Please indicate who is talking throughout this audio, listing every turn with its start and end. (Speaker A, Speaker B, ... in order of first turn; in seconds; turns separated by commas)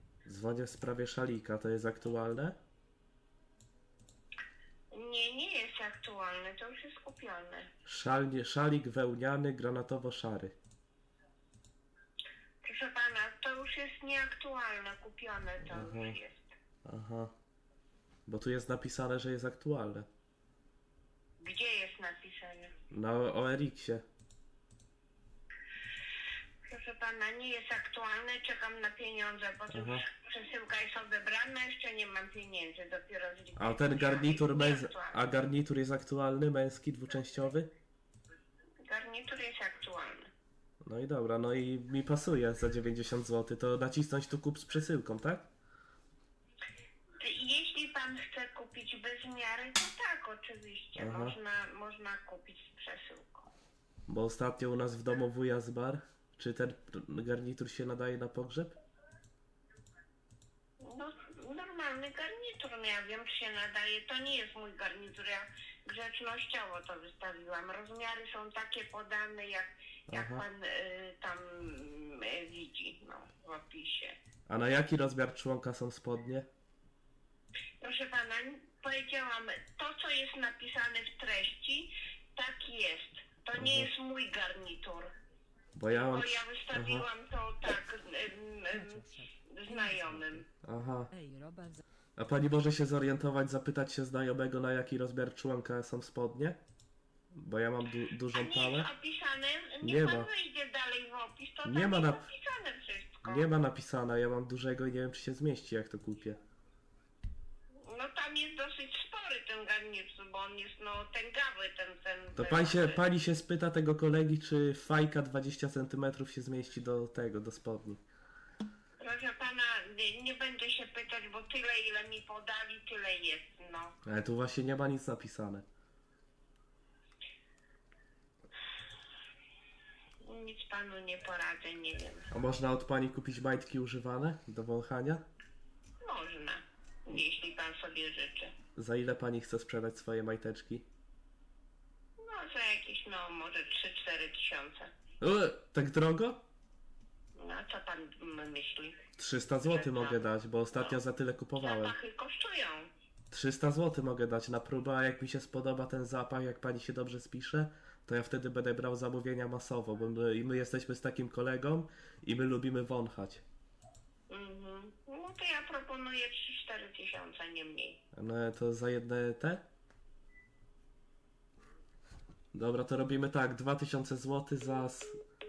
Speaker A: 0.2-2.6, Speaker B: 4.9-7.7, Speaker A: 7.9-10.6, Speaker B: 12.6-16.6, Speaker A: 15.7-16.2, Speaker A: 16.9-17.3, Speaker A: 18.3-20.1, Speaker B: 21.4-22.8, Speaker A: 22.9-24.0, Speaker B: 26.7-35.2, Speaker A: 29.7-30.0, Speaker A: 33.6-37.7, Speaker B: 38.9-40.3, Speaker A: 40.8-45.5, Speaker B: 47.2-53.5, Speaker A: 51.0-51.4, Speaker A: 54.1-58.8, Speaker B: 60.8-74.2, Speaker A: 70.1-70.5, Speaker A: 74.5-76.5, Speaker B: 77.8-85.1, Speaker A: 83.5-83.9, Speaker A: 85.8-87.0, Speaker B: 85.9-90.5, Speaker C: 88.7-90.5, Speaker A: 90.6-91.1, Speaker C: 91.1-91.8, Speaker A: 92.2-96.6, Speaker A: 97.3-98.9, Speaker B: 98.3-103.5, Speaker A: 99.8-100.3, Speaker A: 101.6-102.3, Speaker A: 103.2-106.4, Speaker B: 107.8-113.0, Speaker A: 112.4-118.0, Speaker B: 119.0-124.0, Speaker A: 124.0-125.7, Speaker B: 130.2-132.3, Speaker A: 132.3-135.2, Speaker B: 136.0-138.5, Speaker A: 138.8-140.8, Speaker B: 142.2-144.9, Speaker A: 145.2-146.4, Speaker B: 147.4-149.1, Speaker A: 149.2-151.9, Speaker B: 149.6-151.0, Speaker B: 151.6-152.9, Speaker A: 153.3-163.4, Speaker B: 164.3-168.0, Speaker A: 168.1-169.6, Speaker A: 172.5-175.2